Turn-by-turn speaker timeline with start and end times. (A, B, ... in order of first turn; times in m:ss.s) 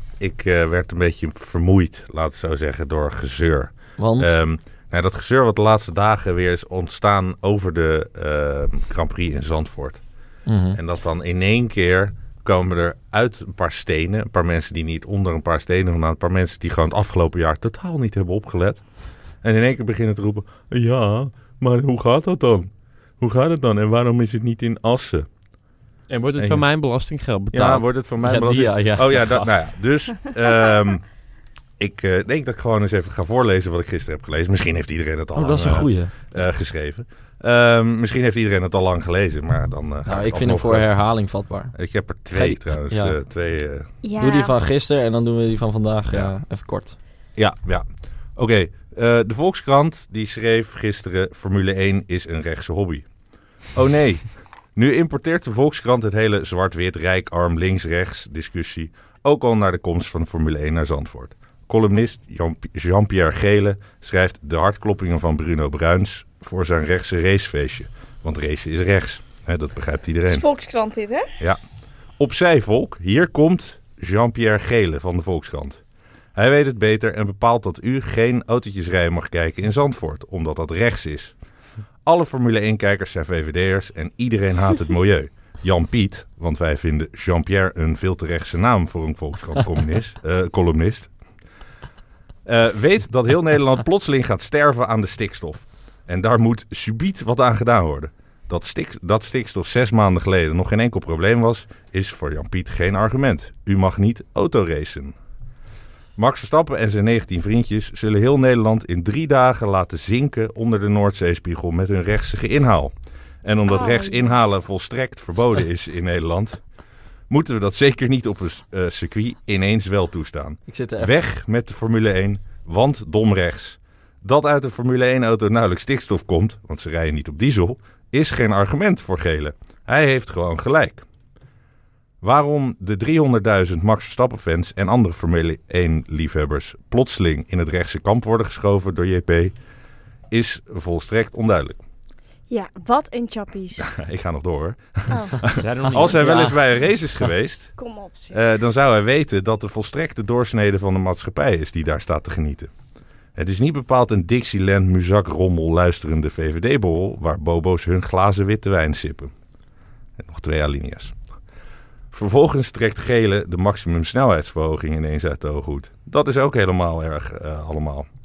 0:00.2-0:10.0 A
0:04.0-0:04.3 B
0:10.5-0:10.8 B
0:10.7-0:18.9 A
0:19.4-0:25.3 A
0:26.1-0:27.9 C
0:26.4-0:26.6 A
0:27.5-0:31.0 A
0:28.2-0:29.5 B
0:31.8-0:40.9 A
0:35.4-0:36.2 B
0:40.1-0:41.8 B
0:41.7-0:43.9 A
0:42.3-0:43.2 B
0:44.0-0:44.5 D
0:44.2-0:47.0 B
0:47.4-0:47.8 A
0:48.4-0:53.1 A
0:53.7-1:10.4 A
1:10.3-1:11.3 D
1:12.2-1:15.8 A
1:16.4-1:21.4 A
1:22.0-1:31.1 A
1:32.4-1:45.2 A
1:46.2-1:52.9 A
1:53.4-1:56.6 A
1:53.7-1:54.3 D
1:57.3-2:11.0 A
2:00.7-2:01.2 B
2:12.2-2:19.5 A
2:20.3-2:21.8 A
2:22.5-2:23.9 D
2:23.8-2:27.8 A
2:25.1-2:25.4 D
2:25.5-2:26.6 C
2:26.0-2:26.6 B
2:27.8-2:28.4 D
2:28.3-2:32.7 A
2:33.4-2:39.3 A
2:40.2-2:41.2 A
2:42.1-2:48.1 A